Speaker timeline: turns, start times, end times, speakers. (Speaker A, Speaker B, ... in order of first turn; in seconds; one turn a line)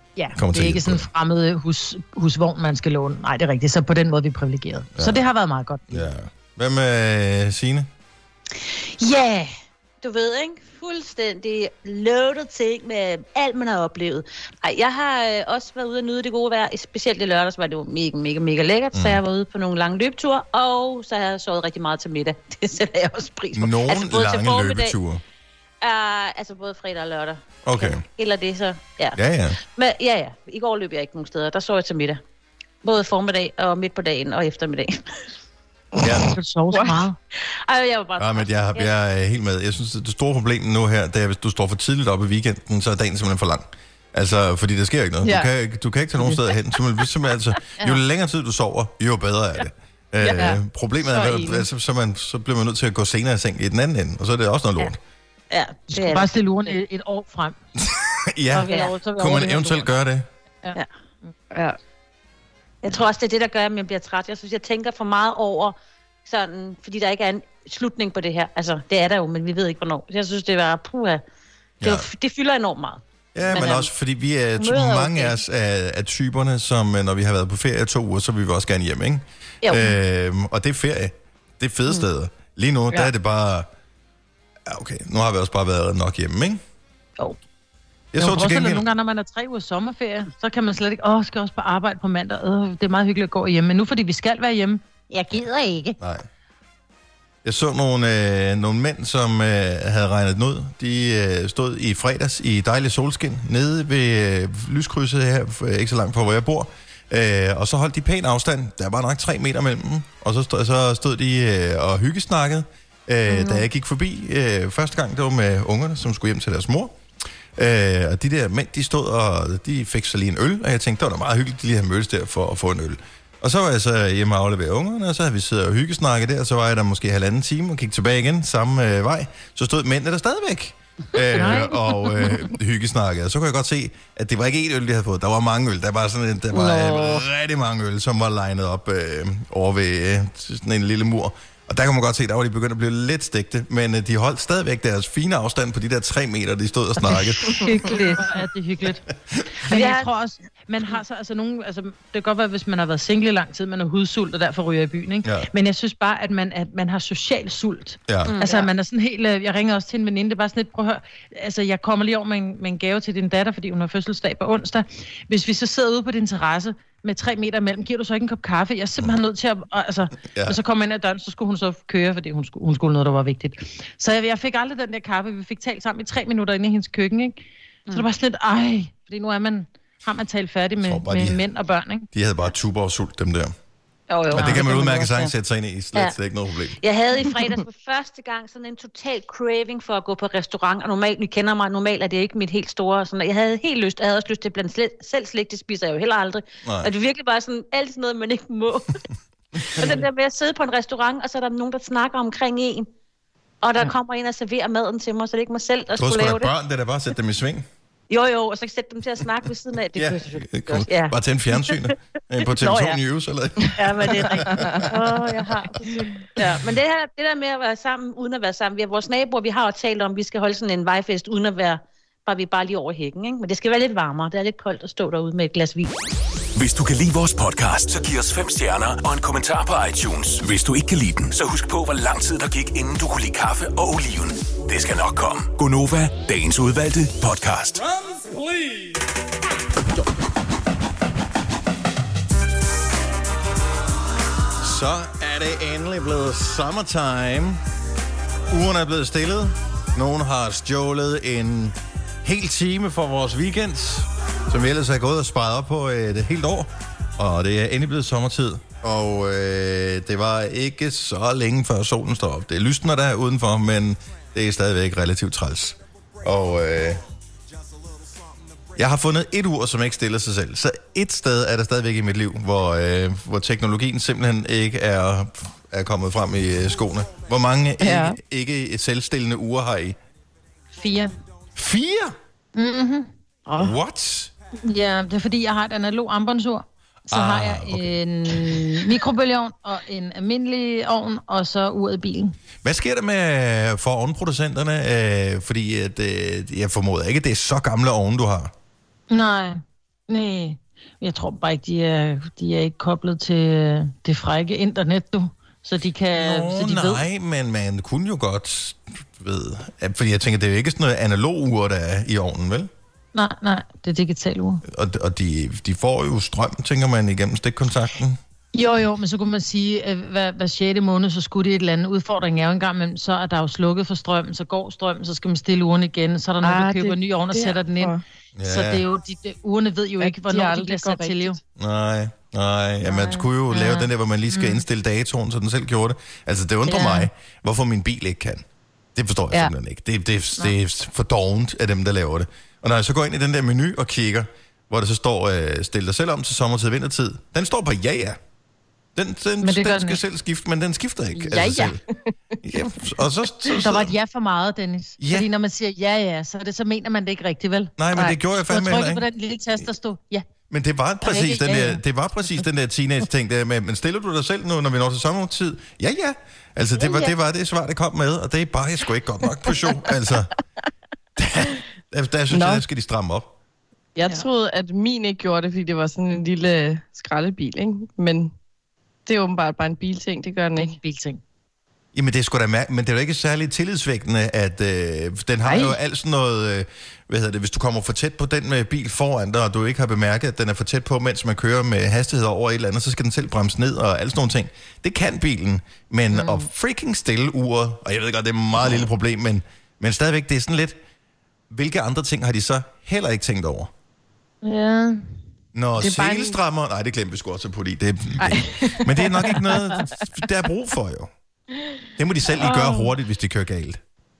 Speaker A: 0.2-6.1
Speaker B: 0.3-1.1
Speaker B: 5.0-5.2
Speaker B: 5.9-7.9
Speaker A: 9.0-9.4
Speaker C: 9.1-9.4
Speaker C: 10.0-25.0
Speaker B: 18.9-19.2
Speaker B: 23.5-25.2
Speaker C: 25.8-32.2
Speaker B: 27.6-28.0
Speaker B: 29.1-29.6
Speaker C: 32.8-35.3
Speaker B: 36.0-36.3
Speaker A: 36.3-37.2
Speaker D: 36.8-37.0
Speaker C: 37.3-38.9
Speaker B: 38.2-55.0
Speaker D: 45.2-45.5
Speaker D: 50.2-51.7
Speaker C: 55.5-56.3
Speaker A: 55.9-57.6
Speaker B: 57.8-60.3
Speaker A: 58.5-59.9
Speaker C: 58.7-58.9
Speaker D: 61.5-61.8
Speaker C: 62.8-71.2
Speaker B: 71.8-72.1
Speaker C: 71.8-73.9
Speaker B: 73.3-83.7
Speaker C: 74.6-75.4
Speaker C: 79.6-80.0
Speaker B: 84.7-86.6
Speaker B: 88.1-88.9
Speaker A: 88.2-94.8
Speaker C: 95.1-96.0
Speaker B: 96.0-96.3
Speaker B: 97.4-117.0
Speaker A: 113.3-113.6
Speaker B: 117.6-147.8
Speaker A: 131.3-132.3
Speaker C: 136.6-137.2
Speaker A: 147.5-149.0
Speaker C: 147.8-148.2
Speaker C: 149.6-150.1
Speaker A: 149.7-182.1
Speaker B: 155.2-155.5
Speaker B: 158.1-158.4
Speaker C: 158.2-158.7
Speaker B: 170.2-170.6
Speaker B: 180.8-181.4
Speaker B: 182.1-183.6
Speaker C: 184.1-185.3
Speaker B: 184.3-186.8
Speaker A: 184.4-184.7
Speaker C: 186.8-199.0
Speaker B: 196.6-196.9
Speaker C: 199.6-202.9
Speaker C: 203.6-206.5
Speaker B: 206.0-207.7
Speaker C: 208.1-211.9
Speaker B: 209.9-214.9
Speaker C: 212.4-213.0
Speaker C: 213.7-225.9
Speaker D: 214.6-214.9
Speaker E: 226.6-237.9
Speaker B: 244.6-247.6
Speaker B: 248.5-267.0
Speaker B: 268.8-280.0
Speaker D: 277.8-278.2
Speaker A: 280.8-281.1
Speaker B: 281.6-282.2
Speaker A: 282.6-283.8
Speaker B: 283.6-284.3
Speaker A: 284.6-292.4
Speaker B: 287.1-289.0
Speaker B: 292.6-298.5
Speaker A: 299.1-307.1
Speaker B: 306.2-312.7
Speaker A: 313.1-314.6
Speaker B: 314.7-318.2
Speaker A: 318.5-327.9
Speaker D: 326.4-328.0
Speaker B: 328.4-328.9
Speaker A: 328.4-331.4
Speaker D: 330.0-331.4
Speaker B: 331.6-338.4
Speaker A: 332.9-334.6
Speaker A: 336.7-337.1
Speaker B: 338.9-348.2
Speaker B: 348.9-351.8
Speaker A: 349.4-350.0
Speaker D: 351.1-352.1
Speaker B: 352.4-353.9
Speaker A: 353.6-360.3
Speaker B: 355.0-355.3
Speaker B: 357.8-359.0
Speaker B: 360.5-370.3
Speaker A: 361.0-361.8
Speaker B: 371.2-373.3
Speaker D: 372.3-372.6
Speaker D: 373.9-378.3
Speaker D: 379.1-380.8
Speaker A: 380.6-381.2
Speaker B: 381.9-400.8
Speaker A: 385.5-385.7
Speaker A: 396.1-396.5
Speaker B: 401.5-403.7
Speaker A: 404.4-405.1
Speaker B: 405.5-411.1
Speaker A: 405.8-406.3
Speaker D: 408.2-409.8
Speaker B: 412.0-413.8
Speaker D: 412.4-412.9